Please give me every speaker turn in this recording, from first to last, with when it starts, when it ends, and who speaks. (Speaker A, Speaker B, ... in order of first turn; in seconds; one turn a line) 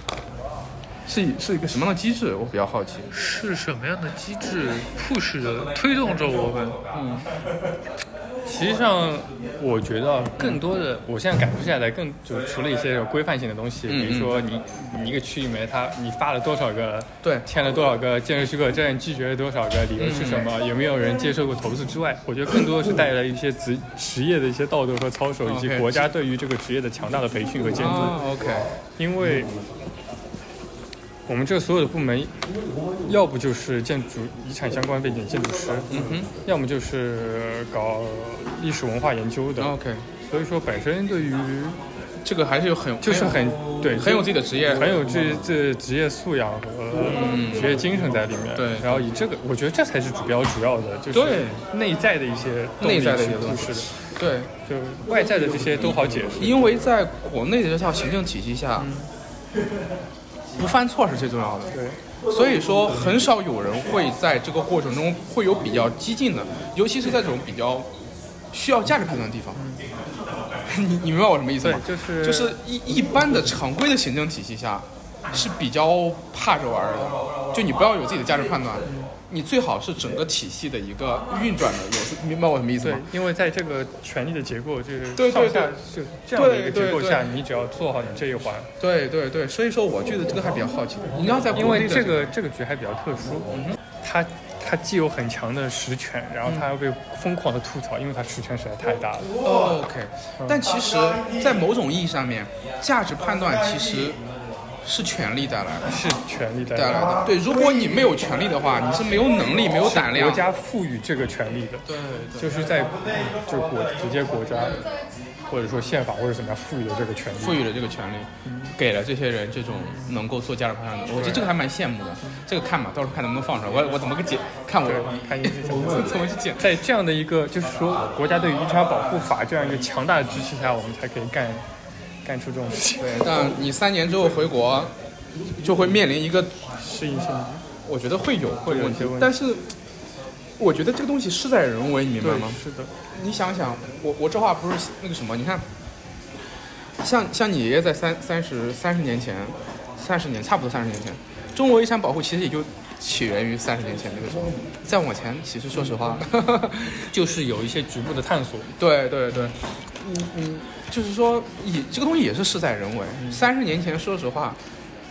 Speaker A: 1.1-3.1
Speaker B: 3.1-6.5
Speaker C: 3.5-6.8
Speaker A: 6.9-7.3
Speaker C: 8.4-28.2
Speaker A: 13.9-14.4
Speaker A: 20.0-20.5
Speaker A: 25.4-26.1
Speaker A: 27.8-28.7
Speaker C: 29.0-29.5
Speaker C: 31.3-32.4
Speaker C: 33.1-39.7
Speaker A: 35.9-36.3
Speaker A: 39.6-40.1
Speaker C: 40.3-41.8
Speaker A: 42.2-45.0
Speaker C: 43.0-53.9
Speaker A: 47.1-47.8
Speaker A: 48.5-49.1
Speaker A: 51.1-51.6
Speaker A: 52.8-54.5
Speaker C: 54.6-56.7
Speaker A: 56.4-58.9
Speaker C: 58.8-59.1
Speaker A: 60.6-61.8
Speaker C: 61.7-62.0
Speaker A: 62.3-67.9
Speaker A: 68.5-69.6
Speaker C: 69.5-69.8
Speaker A: 70.7-83.1
Speaker C: 71.6-72.6
Speaker C: 82.8-88.7
Speaker A: 85.1-85.7
Speaker A: 86.3-87.3
Speaker A: 88.8-92.3
Speaker C: 91.5-99.3
Speaker A: 99.4-104.2
Speaker A: 104.8-105.9
Speaker C: 105.9-107.1
Speaker A: 106.7-110.4
Speaker C: 109.8-111.9
Speaker A: 111.9-112.6
Speaker C: 112.4-114.8
Speaker C: 115.5-117.6
Speaker A: 117.4-126.7
Speaker C: 118.4-118.8
Speaker C: 119.8-120.1
Speaker C: 121.1-121.5
Speaker C: 124.8-131.6
Speaker C: 132.2-133.2
Speaker A: 133.0-134.9
Speaker A: 135.6-136.6
Speaker C: 136.8-137.6
Speaker A: 137.9-139.6
Speaker C: 138.6-139.3
Speaker A: 140.6-142.6
Speaker C: 142.2-142.9
Speaker A: 143.1-145.6
Speaker A: 147.0-157.1
Speaker C: 157.1-158.7
Speaker A: 158.8-164.6